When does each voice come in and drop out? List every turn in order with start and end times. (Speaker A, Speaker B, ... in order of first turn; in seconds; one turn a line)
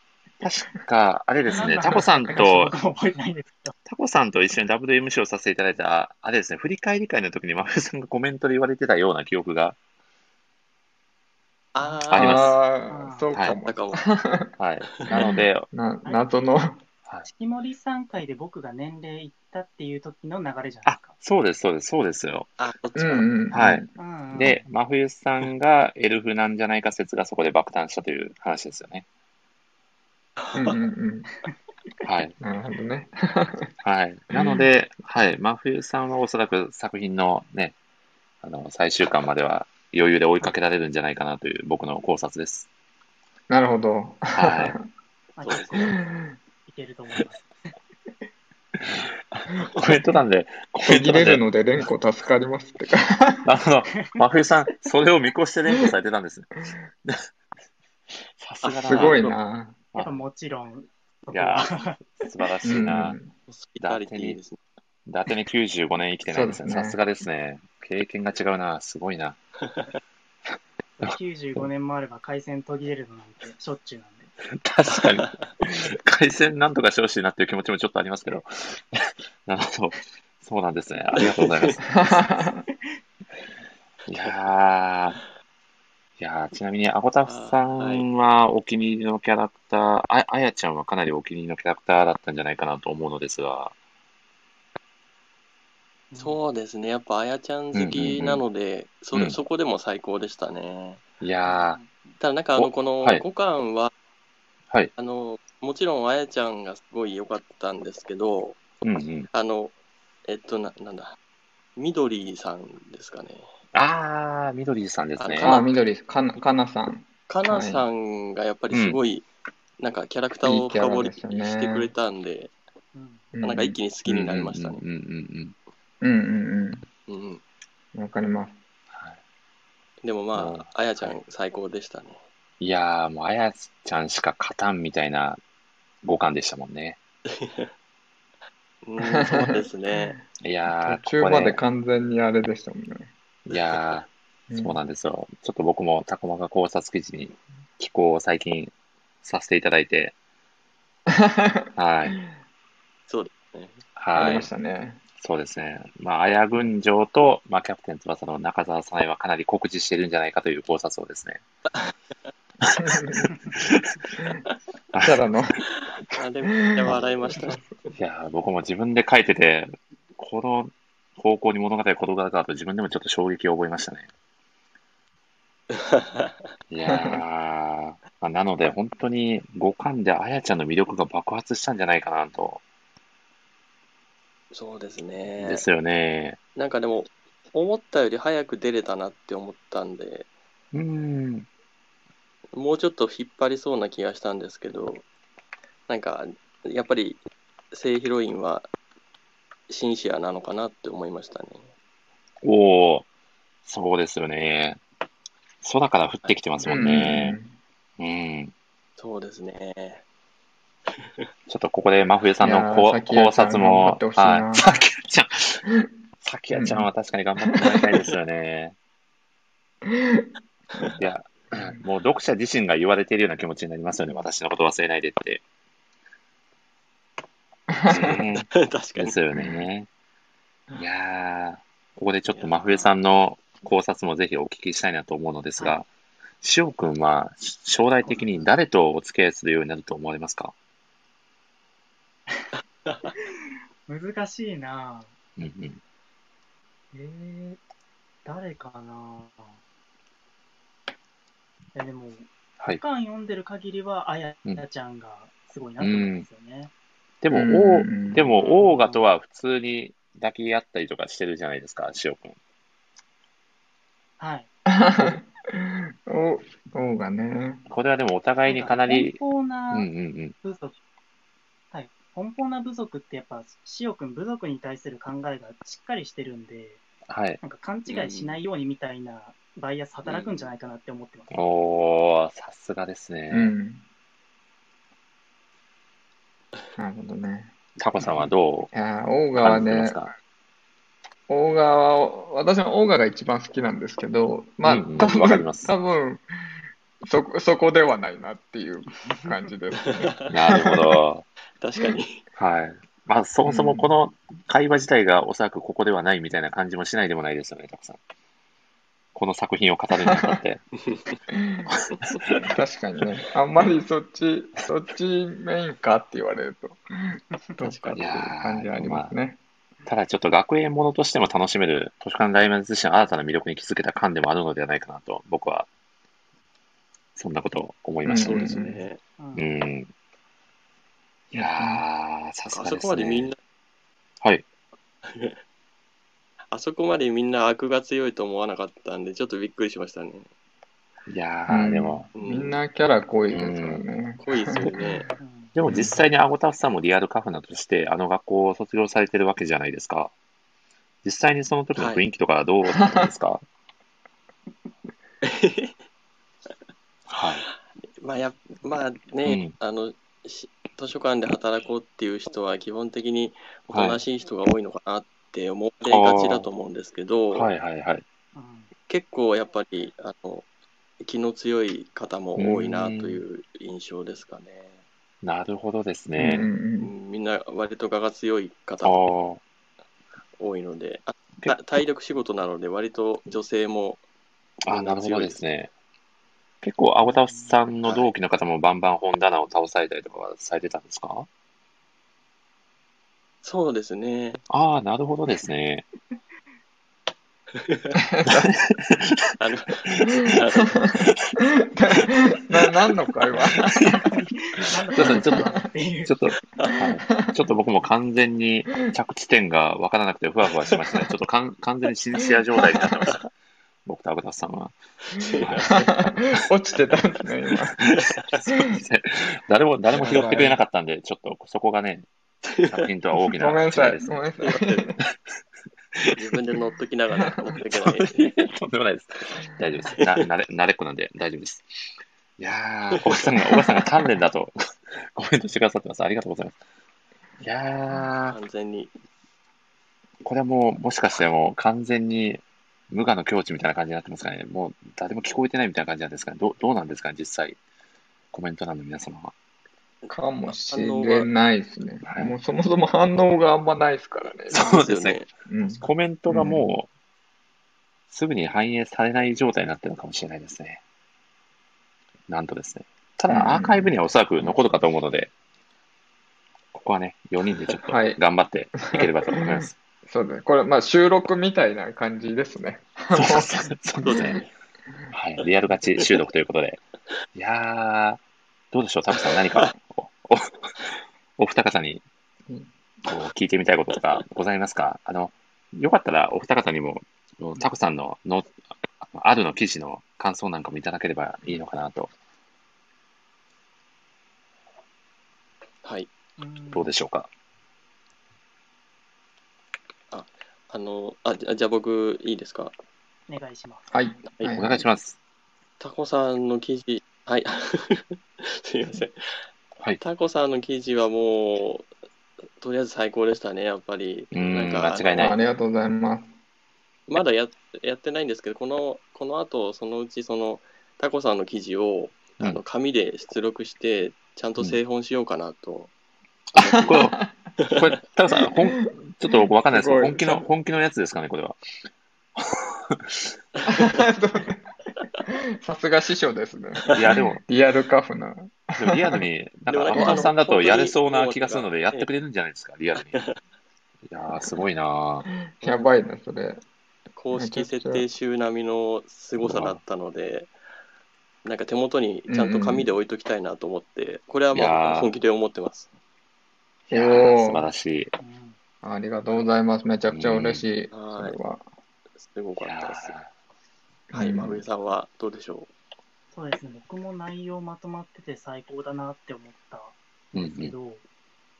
Speaker A: 0.4-2.7
Speaker B: 1.5-3.7
Speaker A: 3.9-9.8
Speaker C: 11.7-12.6
Speaker B: 11.8-12.1
Speaker A: 12.1-12.6
Speaker D: 12.1-14.5
Speaker B: 12.9-13.3
Speaker C: 13.6-14.0
Speaker A: 14.6-15.7
Speaker D: 15.1-16.8
Speaker B: 17.2-21.1
Speaker A: 20.9-22.5
Speaker C: 22.6-23.3
Speaker D: 22.9-23.9
Speaker A: 23.5-23.8
Speaker B: 24.0-24.6
Speaker A: 24.3-29.1
Speaker C: 30.4-30.8
Speaker D: 30.5-31.3
Speaker A: 32.0-32.3
Speaker D: 32.4-33.7
Speaker A: 33.8-37.8
Speaker A: 38.4-42.7
Speaker D: 43.5-44.8
Speaker A: 44.3-44.8
Speaker B: 45.4-46.0
Speaker C: 45.5-45.7
Speaker D: 45.8-46.3
Speaker B: 46.6-47.4
Speaker A: 48.8-51.4
Speaker D: 50.8-53.5
Speaker A: 53.4-57.2
Speaker A: 58.4-59.3
Speaker C: 58.6-59.4
Speaker D: 58.8-59.8
Speaker B: 60.0-62.0
Speaker A: 61.3-63.1
Speaker D: 62.6-63.3
Speaker C: 63.5-64.6
Speaker A: 63.8-64.4
Speaker A: 65.0-69.4
Speaker D: 66.2-67.0
Speaker B: 71.0-74.3
Speaker A: 71.0-71.6
Speaker A: 74.6-82.3
Speaker C: 75.0-75.3
Speaker C: 81.2-81.7
Speaker D: 81.9-82.6
Speaker A: 84.1-85.2
Speaker A: 86.2-93.7
Speaker C: 87.2-88.0
Speaker B: 96.1-96.4
Speaker C: 96.2-101.0
Speaker A: 97.7-98.4
Speaker A: 101.2-101.8
Speaker B: 101.4-101.9
Speaker C: 102.2-103.9
Speaker A: 102.5-103.2
Speaker C: 105.0-109.7
Speaker A: 108.8-109.3
Speaker C: 110.3-111.2
Speaker C: 111.8-113.5
Speaker A: 113.7-115.5
Speaker C: 115.2-115.7
Speaker D: 115.4-117.8
Speaker C: 117.3-119.2
Speaker A: 118.7-119.0
Speaker C: 119.8-122.5
Speaker D: 120.4-121.9
Speaker B: 122.9-123.2
Speaker D: 123.3-123.8
Speaker C: 123.4-124.8
Speaker A: 124.1-125.5
Speaker D: 126.0-126.8
Speaker C: 127.1-127.4
Speaker D: 127.9-128.5
Speaker A: 128.9-129.2
Speaker C: 130.0-132.2
Speaker A: 130.3-131.2
Speaker A: 132.6-135.4
Speaker A: 136.0-137.0
Speaker C: 137.3-137.7
Speaker C: 138.8-140.2
Speaker D: 139.0-140.1
Speaker A: 140.4-141.6
Speaker D: 140.8-143.1
Speaker A: 143.5-148.7
Speaker D: 144.5-144.7
Speaker A: 149.2-150.2
Speaker D: 151.1-151.7
Speaker A: 151.8-152.2
Speaker C: 153.1-154.4
Speaker A: 153.9-154.5
Speaker D: 154.1-155.0
Speaker A: 155.2-161.4
Speaker A: 162.6-164.0
Speaker D: 162.8-163.3
Speaker D: 165.0-165.6
Speaker C: 166.1-167.9
Speaker D: 166.6-167.7
Speaker A: 167.9-174.1
Speaker C: 175.7-176.3
Speaker A: 176.7-182.6
Speaker D: 176.8-177.2
Speaker C: 184.5-185.6
Speaker A: 185.4-186.4
Speaker C: 186.6-190.3
Speaker A: 190.7-191.5
Speaker C: 192.5-195.0
Speaker C: 195.9-197.2
Speaker C: 197.7-198.7
Speaker C: 199.7-201.6
Speaker A: 202.4-203.1
Speaker A: 203.6-204.8
Speaker A: 205.6-207.4
Speaker D: 206.6-207.5
Speaker A: 208.0-208.5
Speaker C: 209.0-210.0
Speaker A: 211.5-215.7
Speaker D: 212.4-214.7
Speaker A: 216.2-218.8
Speaker D: 216.5-216.9
Speaker D: 219.8-220.3
Speaker A: 221.0-225.4
Speaker D: 227.7-228.2
Speaker A: 227.9-229.9
Speaker C: 228.5-229.2
Speaker A: 230.8-235.9
Speaker C: 232.3-232.9
Speaker A: 236.4-240.5
Speaker B: 238.0-238.4
Speaker B: 243.9-245.1
Speaker A: 245.4-245.8
Speaker B: 246.9-247.6
Speaker B: 248.2-249.6
Speaker B: 251.7-256.7
Speaker A: 255.8-256.3
Speaker A: 257.2-262.4
Speaker D: 257.3-258.3
Speaker B: 258.3-259.0
Speaker B: 264.2-264.5
Speaker D: 264.6-267.6
Speaker A: 267.7-269.2
Speaker B: 268.4-269.9
Speaker A: 269.7-270.3
Speaker B: 270.4-270.8
Speaker B: 271.7-276.8
Speaker A: 277.1-278.0
Speaker B: 277.4-281.3
Speaker A: 281.3-283.5
Speaker D: 283.3-283.8
Speaker D: 286.8-287.5
Speaker A: 287.8-288.7
Speaker D: 288.7-290.0
Speaker A: 289.4-290.1
Speaker D: 291.3-296.2
Speaker A: 294.6-295.7
Speaker D: 297.0-300.1
Speaker B: 299.1-299.4
Speaker C: 299.9-300.3
Speaker A: 300.3-301.2
Speaker C: 301.6-302.2
Speaker A: 302.4-308.0
Speaker D: 303.4-303.9
Speaker A: 309.1-310.6
Speaker D: 310.0-310.4
Speaker C: 310.8-311.2
Speaker D: 311.3-311.7
Speaker A: 311.8-312.5
Speaker D: 312.4-319.4
Speaker C: 317.6-318.1
Speaker A: 317.9-319.1
Speaker A: 319.9-325.7
Speaker A: 327.1-328.8
Speaker D: 328.0-328.8
Speaker C: 328.1-329.0
Speaker B: 329.2-329.5
Speaker A: 329.4-329.9
Speaker A: 331.3-333.3
Speaker D: 331.4-331.8
Speaker C: 332.5-333.4
Speaker C: 335.0-335.4
Speaker C: 336.5-340.3
Speaker A: 341.1-342.1
Speaker D: 341.5-344.7
Speaker C: 342.1-342.6
Speaker A: 343.3-343.9
Speaker C: 344.2-345.1
Speaker B: 345.2-345.5
Speaker A: 345.5-350.1
Speaker D: 345.6-346.0
Speaker A: 351.0-353.4
Speaker C: 351.7-352.0
Speaker D: 352.7-353.1
Speaker C: 355.2-355.7
Speaker A: 357.1-357.4
Speaker C: 358.0-367.5
Speaker A: 359.2-359.5
Speaker A: 363.7-364.0
Speaker A: 365.9-366.5
Speaker A: 367.3-368.0
Speaker B: 368.3-368.7
Speaker C: 368.9-370.5
Speaker C: 371.0-374.8
Speaker A: 372.4-373.2
Speaker A: 375.2-376.5
Speaker D: 376.2-376.9
Speaker C: 376.8-379.0
Speaker A: 378.8-379.4
Speaker C: 380.4-384.0
Speaker A: 384.6-385.7
Speaker C: 384.7-385.4
Speaker A: 386.6-391.3
Speaker B: 387.0-387.6
Speaker C: 387.8-388.1
Speaker C: 393.4-394.4
Speaker A: 394.5-395.9
Speaker C: 397.5-398.0
Speaker D: 398.1-398.5
Speaker A: 398.2-399.1
Speaker C: 399.4-400.9
Speaker A: 399.9-400.4
Speaker D: 400.0-404.0
Speaker A: 400.9-401.4
Speaker A: 403.4-404.1
Speaker B: 404.1-406.1
Speaker A: 404.9-413.3
Speaker D: 405.0-405.4
Speaker C: 412.8-413.1
Speaker A: 413.8-414.7
Speaker C: 415.1-415.9
Speaker A: 415.4-415.9
Speaker D: 415.6-417.8
Speaker C: 417.8-418.4
Speaker A: 417.8-422.1
Speaker D: 419.9-420.6
Speaker C: 420.0-420.4
Speaker C: 422.5-422.9
Speaker A: 422.7-424.1
Speaker D: 423.3-425.0
Speaker C: 424.4-424.8
Speaker C: 426.1-428.3
Speaker A: 427.7-431.7
Speaker C: 430.0-430.2
Speaker A: 432.4-436.6
Speaker C: 433.0-433.9
Speaker A: 437.4-438.4
Speaker C: 438.2-438.9
Speaker A: 440.2-447.6
Speaker A: 448.3-449.3
Speaker C: 450.0-451.3
Speaker D: 450.1-454.7
Speaker A: 452.0-452.3
Speaker A: 454.5-455.3
Speaker C: 454.5-455.3
Speaker D: 455.4-456.7
Speaker A: 455.8-456.9
Speaker A: 458.1-460.8
Speaker A: 462.3-465.3
Speaker D: 463.3-464.6
Speaker A: 466.7-469.8
Speaker D: 467.9-468.2
Speaker D: 468.8-473.5
Speaker A: 473.1-474.4
Speaker C: 474.0-474.4
Speaker A: 475.1-476.8
Speaker A: 477.3-480.7
Speaker C: 479.1-479.7
Speaker A: 481.4-482.0
Speaker A: 483.1-488.5
Speaker A: 489.0-492.1
Speaker C: 495.8-496.1
Speaker B: 496.4-496.9
Speaker A: 496.7-497.3
Speaker C: 500.1-502.7
Speaker B: 503.3-503.9
Speaker D: 503.9-504.8
Speaker A: 504.5-505.2
Speaker C: 505.8-509.1
Speaker C: 510.0-511.9
Speaker C: 512.6-515.4
Speaker A: 514.3-515.4
Speaker D: 515.1-516.3
Speaker C: 517.1-525.9
Speaker A: 526.5-531.6
Speaker C: 526.6-527.0
Speaker D: 526.6-527.2
Speaker C: 527.6-527.8
Speaker D: 528.9-530.5
Speaker A: 532.4-533.2
Speaker D: 533.6-534.6
Speaker D: 535.2-539.2
Speaker A: 536.9-537.4
Speaker A: 538.8-543.3
Speaker C: 539.7-542.1
Speaker D: 539.9-540.2
Speaker A: 544.1-545.3
Speaker D: 545.5-546.6
Speaker C: 545.6-545.9
Speaker C: 547.1-550.5
Speaker D: 547.3-548.0
Speaker A: 549.4-549.8
Speaker C: 551.4-555.9
Speaker D: 552.3-552.9
Speaker A: 554.5-555.1
Speaker A: 556.9-558.1
Speaker D: 556.9-557.6
Speaker B: 558.2-558.5
Speaker D: 558.8-561.6
Speaker A: 560.1-560.6
Speaker C: 560.9-561.4
Speaker C: 562.2-563.1
Speaker A: 562.6-563.3
Speaker C: 564.1-565.7
Speaker D: 564.1-564.6
Speaker B: 566.3-571.0
Speaker A: 570.3-570.7